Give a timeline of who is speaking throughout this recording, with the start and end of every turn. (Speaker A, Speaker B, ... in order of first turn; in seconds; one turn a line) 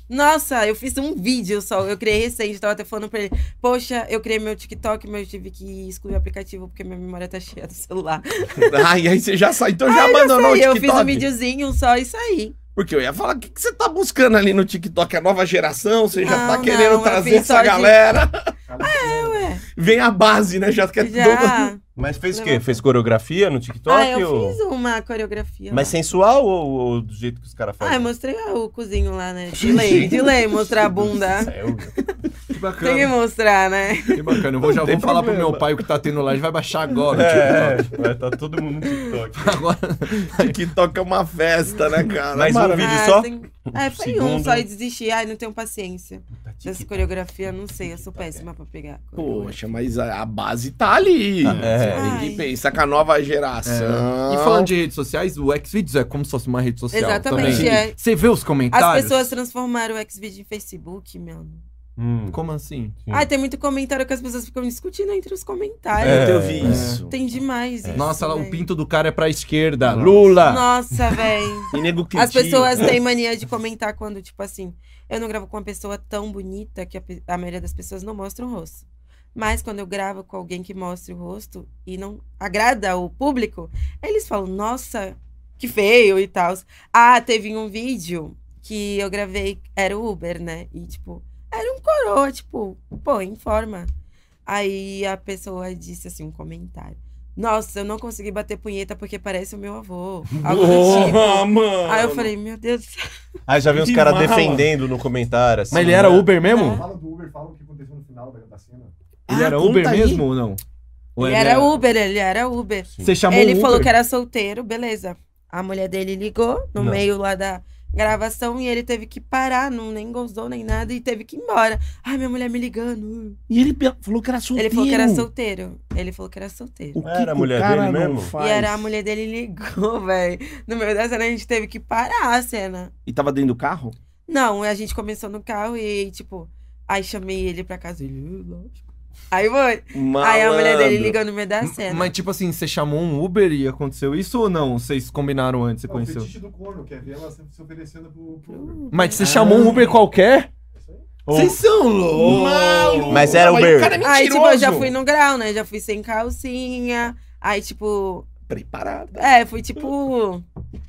Speaker A: 0.1-8.8
Speaker B: 8.6-11.3
Speaker A: 9.9-12.6
Speaker B: 12.8-18.5
Speaker A: 16.2-18.0
Speaker C: 18.7-19.6
Speaker A: 18.8-19.6
Speaker B: 19.8-21.7
Speaker A: 21.0-22.8
Speaker D: 22.0-24.6
Speaker A: 23.9-26.0
Speaker D: 25.7-28.1
Speaker A: 27.8-31.5
Speaker D: 29.6-31.9
Speaker E: 32.5-33.1
Speaker A: 32.8-34.3
Speaker E: 34.1-37.9
Speaker B: 34.7-35.8
Speaker D: 37.1-39.6
Speaker E: 39.4-40.6
Speaker B: 40.3-43.0
Speaker D: 42.3-44.7
Speaker A: 42.7-49.7
Speaker D: 46.4-47.0
Speaker D: 47.8-48.5
Speaker B: 49.2-54.7
Speaker D: 51.4-52.2
Speaker E: 51.5-52.0
Speaker A: 51.9-52.5
Speaker E: 53.6-59.3
Speaker A: 56.9-58.0
Speaker B: 57.3-57.8
Speaker A: 58.7-61.6
Speaker D: 62.0-62.4
Speaker E: 62.3-63.0
Speaker A: 63.1-68.7
Speaker D: 66.0-67.0
Speaker B: 66.0-67.1
Speaker E: 66.6-67.0
Speaker E: 68.0-70.7
Speaker D: 69.9-70.3
Speaker A: 70.4-78.8
Speaker B: 71.7-73.0
Speaker A: 79.3-93.9
Speaker A: 94.5-103.1
Speaker B: 100.4-102.3
Speaker E: 100.7-101.2
Speaker D: 103.5-106.3
Speaker B: 103.7-104.7
Speaker E: 105.7-106.8
Speaker A: 106.4-106.9
Speaker C: 106.6-108.9
Speaker B: 109.3-110.3
Speaker E: 109.3-110.6
Speaker E: 111.2-111.8
Speaker A: 111.2-123.4
Speaker E: 113.0-113.9
Speaker D: 116.8-117.0
Speaker B: 123.5-125.3
Speaker A: 124.5-127.0
Speaker B: 127.0-128.9
Speaker D: 127.0-128.3
Speaker A: 128.4-132.9
Speaker B: 133.1-134.0
Speaker A: 134.3-142.1
Speaker B: 139.9-141.2
Speaker E: 141.6-146.3
Speaker C: 145.9-149.4
Speaker A: 148.5-149.7
Speaker E: 148.9-150.5
Speaker D: 149.2-149.8
Speaker C: 150.7-151.1
Speaker D: 151.3-151.6
Speaker E: 151.3-153.5
Speaker B: 152.1-154.9
Speaker D: 153.1-154.0
Speaker A: 154.0-158.3
Speaker B: 158.5-159.2
Speaker A: 159.2-160.4